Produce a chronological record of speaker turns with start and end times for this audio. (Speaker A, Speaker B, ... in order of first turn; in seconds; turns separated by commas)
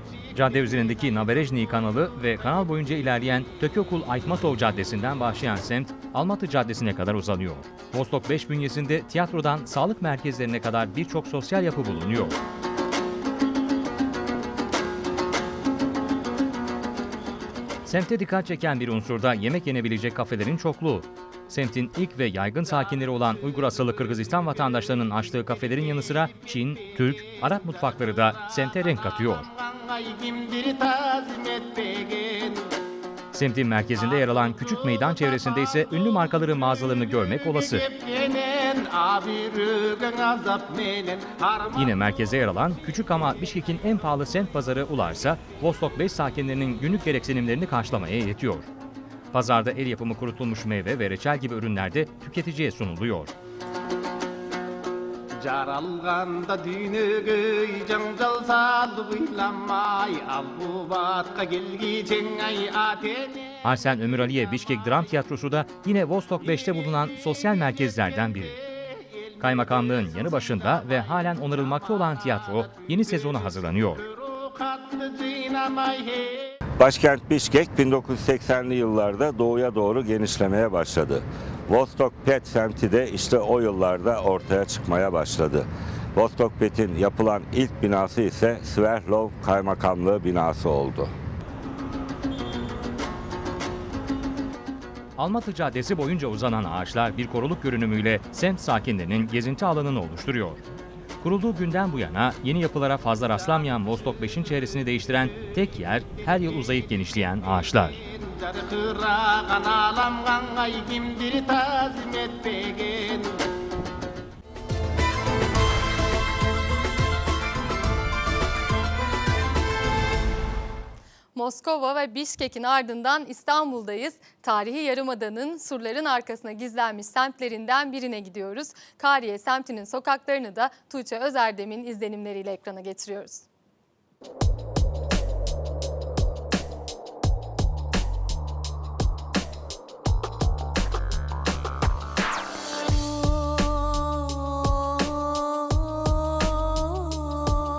Speaker A: 0.3-12.4, Speaker A: 17.8-29.5, Speaker B: 29.9-32.6, Speaker A: 33.3-37.9, Speaker B: 37.9-41.7, Speaker A: 41.7-48.7, Speaker A: 49.3-53.3, Speaker B: 55.4-63.4, Speaker A: 63.6-68.6, Speaker A: 69.4-74.1, Speaker B: 74.5-76.4, Speaker C: 76.8-91.1, Speaker A: 95.2-100.6, Speaker A: 101.2-108.0, Speaker B: 108.4-113.3, Speaker D: 121.3-133.4